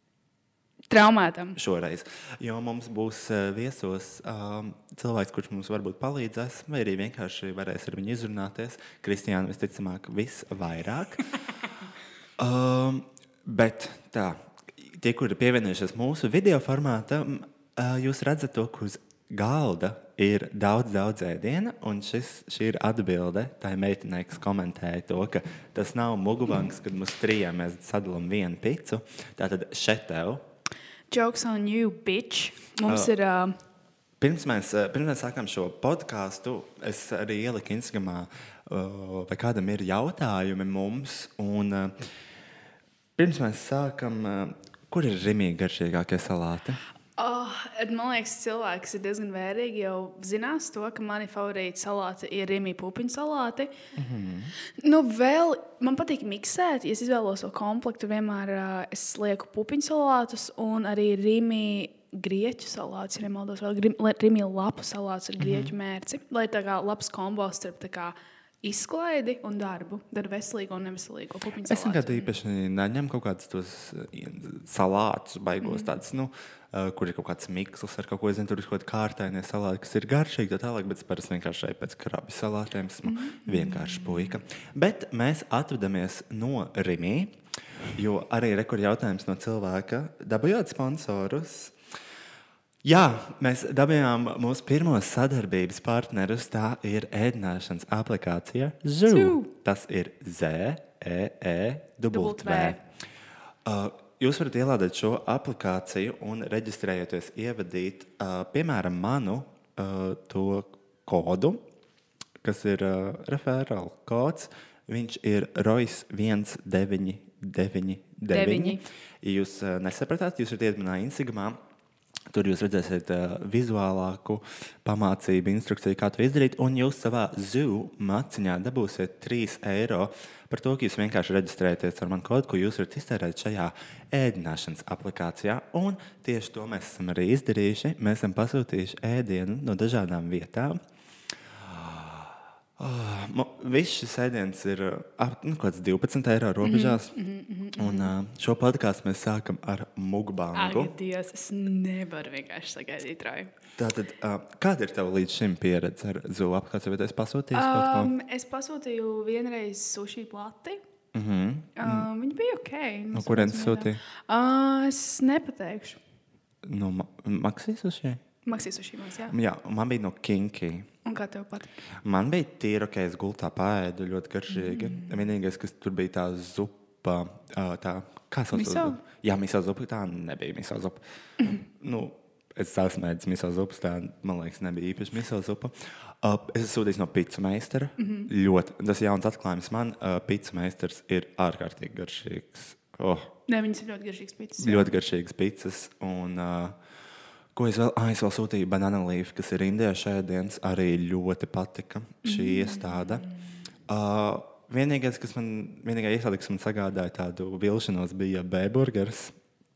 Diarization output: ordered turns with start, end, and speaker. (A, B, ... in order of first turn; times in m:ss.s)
0:00.9-0:01.6 A
0:01.6-0:11.2 B
0:12.4-0:30.4 B
0:31.1-0:33.6 A
0:32.9-0:33.1 B
0:34.2-0:41.9 B
0:43.2-0:46.8 B
0:47.2-0:53.7 A
0:54.0-0:54.5 B
0:54.8-1:12.3 A
1:05.4-1:05.7 B
1:11.7-1:27.4 B
1:23.1-1:24.0 A
1:27.9-1:31.8 B
1:32.8-1:42.8 B
1:39.1-1:39.5 A
1:42.1-1:42.8 A
1:43.7-1:51.6 B
1:52.4-2:01.6 B
1:58.3-1:58.8 A
2:02.3-2:20.8 B
2:21.6-2:27.1 B
2:26.6-2:28.1 A
2:27.8-2:30.9 B
2:30.5-2:33.5 A
2:33.8-2:38.1 B
2:37.5-2:40.8 A
2:41.1-2:42.1 B
2:41.8-2:46.0 A
2:43.1-2:44.0 B
2:46.7-2:48.2 B
2:48.5-2:49.3 A
2:49.3-2:50.9 B
2:51.0-2:51.7 A
2:52.0-3:01.0 B
2:54.6-2:55.1 A
2:58.5-2:59.0 A
3:01.6-3:13.3 B
3:08.0-3:08.3 A
3:13.5-3:14.9 A
3:14.6-3:16.8 B
3:17.6-3:23.3 B
3:22.3-3:23.0 A
3:23.9-3:29.4 B